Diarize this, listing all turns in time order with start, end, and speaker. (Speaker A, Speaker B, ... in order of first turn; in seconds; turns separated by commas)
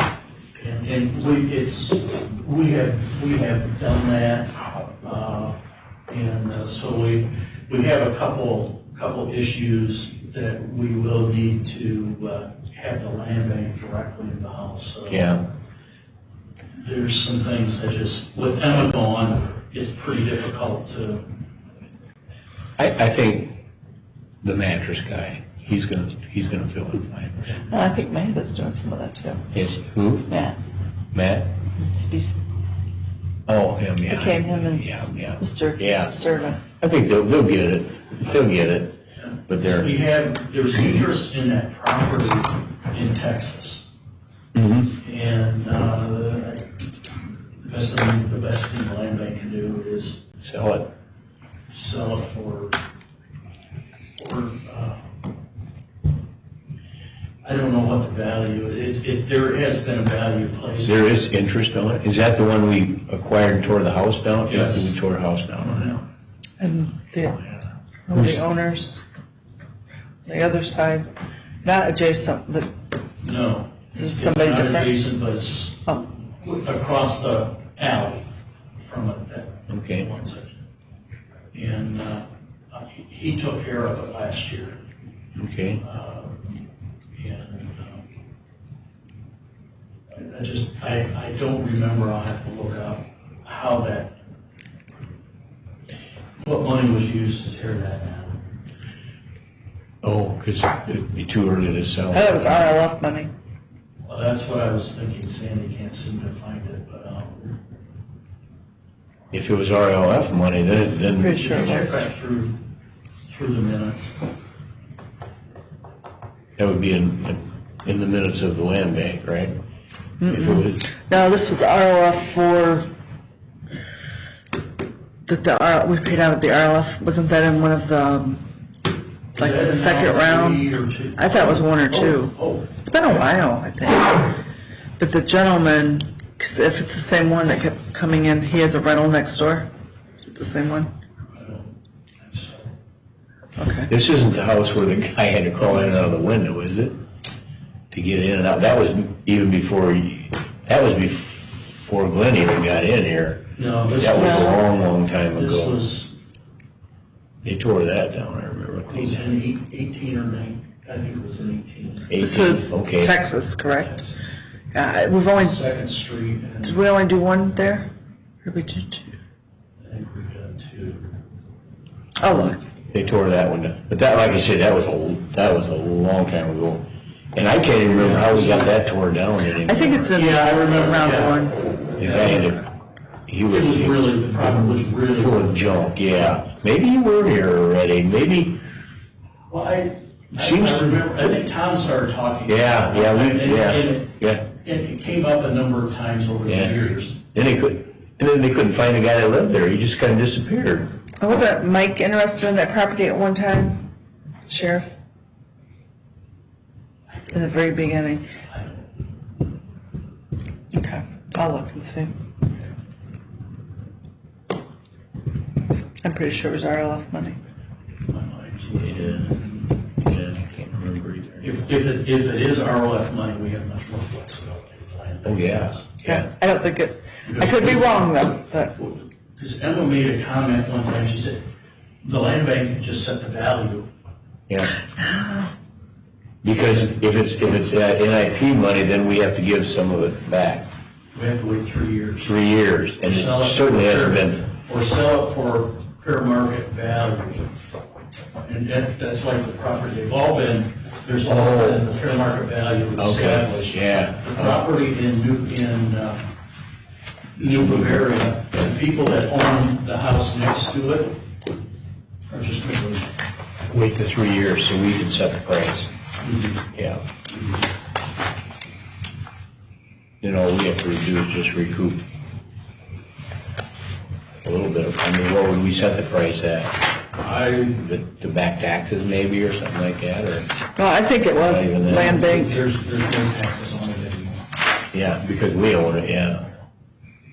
Speaker A: 0.6-5.6, Speaker A: 6.1-15.3, Speaker B: 15.1-15.4, Speaker A: 16.8-21.3, Speaker B: 22.8-23.6, Speaker B: 24.4-27.5, Speaker C: 27.7-29.6, Speaker B: 29.5-30.3, Speaker C: 30.3-30.6, Speaker B: 31.1-31.6, Speaker C: 31.8-32.4, Speaker B: 33.5-39.9, Speaker C: 34.1-36.6, Speaker A: 39.2-43.9, Speaker B: 44.5-45.0, Speaker A: 45.0-46.9, Speaker A: 47.6-50.2, Speaker B: 50.4-50.9, Speaker A: 51.7-52.8, Speaker A: 54.2-55.1, Speaker A: 57.4-61.3, Speaker B: 60.9-66.0, Speaker A: 64.5-65.0, Speaker C: 66.6-67.4, Speaker C: 68.1-69.0, Speaker B: 68.1-68.4, Speaker C: 70.2-71.1, Speaker C: 71.6-72.7, Speaker A: 73.2-78.3, Speaker C: 74.0-75.0, Speaker A: 78.8-80.6, Speaker B: 79.7-80.1, Speaker A: 81.5-84.8, Speaker B: 85.4-85.8, Speaker A: 85.8-86.5, Speaker A: 87.2-88.1, Speaker A: 90.1-94.2, Speaker A: 96.4-98.5, Speaker B: 100.0-102.8, Speaker C: 102.1-103.3, Speaker A: 104.0-107.6, Speaker B: 109.3-111.6, Speaker C: 111.1-112.0, Speaker A: 111.2-112.6, Speaker A: 113.3-114.2, Speaker B: 116.6-119.5, Speaker C: 120.2-122.9, Speaker B: 120.3-120.9, Speaker C: 125.3-128.4, Speaker A: 129.3-132.7, Speaker C: 129.3-134.3, Speaker C: 135.0-139.7, Speaker C: 140.2-140.9, Speaker A: 141.3-142.7, Speaker C: 143.6-143.9, Speaker B: 143.9-146.9, Speaker A: 145.6-146.1, Speaker B: 147.9-155.8, Speaker A: 153.6-154.7, Speaker C: 154.2-154.5, Speaker A: 155.3-156.1, Speaker B: 157.4-159.4, Speaker A: 158.9-162.2, Speaker B: 162.1-163.2, Speaker C: 162.2-164.0, Speaker A: 163.8-164.1, Speaker C: 164.7-165.6, Speaker A: 165.3-166.8, Speaker C: 166.6-167.9, Speaker C: 168.4-169.2, Speaker A: 169.8-171.1, Speaker C: 172.2-172.6, Speaker B: 172.9-180.2, Speaker A: 177.8-178.8, Speaker C: 179.6-181.6, Speaker A: 180.1-182.6, Speaker B: 182.0-182.6, Speaker B: 183.3-188.6, Speaker A: 183.5-185.6, Speaker A: 189.5-197.2, Speaker B: 190.3-191.2, Speaker B: 192.5-194.4, Speaker B: 196.5-196.8, Speaker B: 197.3-200.9, Speaker C: 201.2-203.9, Speaker C: 204.5-204.9, Speaker C: 207.3-208.2, Speaker A: 208.5-208.9, Speaker C: 210.7-212.2, Speaker C: 216.0-217.4, Speaker A: 218.1-219.8, Speaker B: 218.8-219.3, Speaker B: 220.0-221.5, Speaker A: 221.4-226.3, Speaker B: 225.2-226.2, Speaker C: 226.1-228.7, Speaker A: 227.2-231.5, Speaker A: 232.0-233.9, Speaker B: 234.5-234.8, Speaker C: 235.1-235.5, Speaker B: 236.4-240.7, Speaker A: 241.1-242.4, Speaker B: 242.2-244.4, Speaker A: 243.0-247.5, Speaker A: 248.4-256.3, Speaker B: 251.3-251.8, Speaker B: 253.0-254.6, Speaker A: 257.4-261.2, Speaker B: 257.7-258.0, Speaker A: 262.3-263.1, Speaker B: 263.7-265.9, Speaker A: 266.2-266.7, Speaker B: 266.8-267.0, Speaker B: 270.2-272.0, Speaker B: 274.4-276.8, Speaker A: 277.2-277.8, Speaker B: 277.7-280.5, Speaker C: 280.8-282.6, Speaker B: 281.4-282.2, Speaker A: 281.9-284.6, Speaker B: 284.9-286.5